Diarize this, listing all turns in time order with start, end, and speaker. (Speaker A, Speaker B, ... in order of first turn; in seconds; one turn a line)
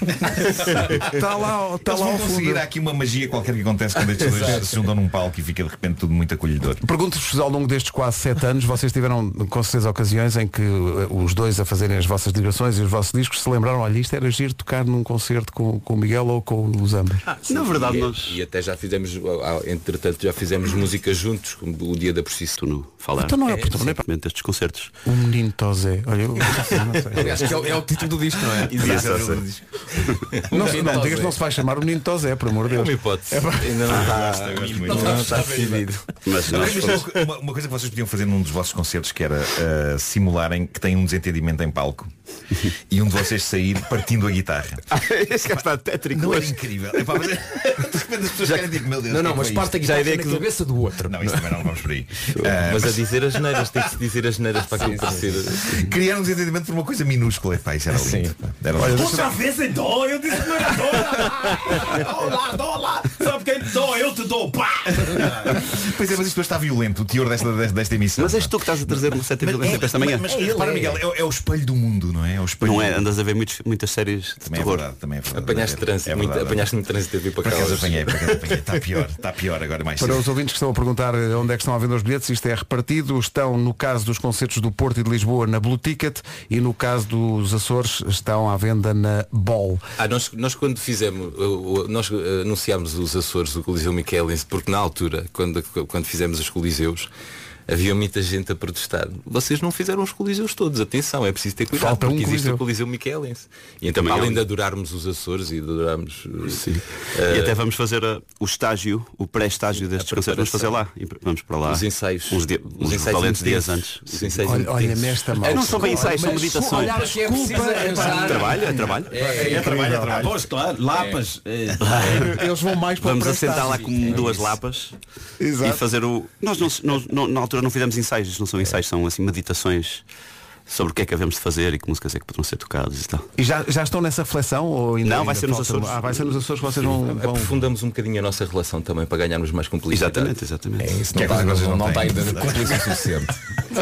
Speaker A: 0.8-2.7
Speaker B: 1.8-6.8
Speaker C: 4.2-4.8
Speaker A: 6.8-17.2
Speaker D: 17.4-18.4
Speaker E: 17.5-22.6
Speaker D: 22.6-24.9
Speaker A: 23.2-24.0
Speaker A: 25.1-27.5
Speaker C: 27.1-29.1
Speaker E: 27.4-27.8
Speaker E: 28.6-29.3
Speaker B: 28.8-29.6
Speaker D: 28.8-29.4
Speaker E: 30.4-31.3
Speaker A: 30.5-34.0
Speaker C: 30.5-31.3
Speaker E: 32.7-35.9
Speaker B: 33.9-35.5
Speaker C: 34.8-35.9
Speaker D: 35.4-37.2
Speaker B: 36.4-42.1
Speaker B: 42.9-44.8
Speaker D: 44.9-47.0
Speaker B: 46.1-49.8
Speaker C: 49.1-51.5
Speaker D: 49.9-50.4
Speaker B: 51.0-53.2
Speaker E: 52.5-55.6
Speaker C: 54.8-55.2
Speaker B: 55.7-59.3
Speaker C: 57.9-58.3
Speaker A: 58.8-59.3
Speaker F: 59.0-65.6
Speaker B: 65.5-73.1
Speaker D: 68.2-70.8
Speaker C: 70.3-71.0
Speaker D: 72.6-74.8
Speaker B: 74.4-76.6
Speaker E: 75.3-78.6
Speaker B: 77.4-80.2
Speaker A: 80.0-89.8
Speaker E: 90.0-97.1
Speaker E: 97.7-107.6
Speaker A: 101.7-102.6
Speaker D: 103.8-104.4
Speaker D: 106.5-114.7
Speaker E: 109.9-110.8
Speaker E: 111.6-116.0
Speaker A: 114.4-120.3
Speaker D: 115.4-117.0
Speaker C: 116.6-119.7
Speaker D: 117.5-119.2
Speaker B: 119.4-120.4
Speaker F: 119.5-122.2
Speaker D: 121.9-122.2
Speaker A: 122.0-123.9
Speaker D: 123.0-125.0
Speaker C: 124.0-124.4
Speaker A: 125.4-125.8
Speaker D: 125.6-130.0
Speaker D: 130.7-133.3
Speaker A: 133.4-137.6
Speaker D: 135.0-136.4
Speaker E: 136.8-140.4
Speaker D: 139.9-140.9
Speaker C: 140.8-143.3
Speaker B: 141.1-142.9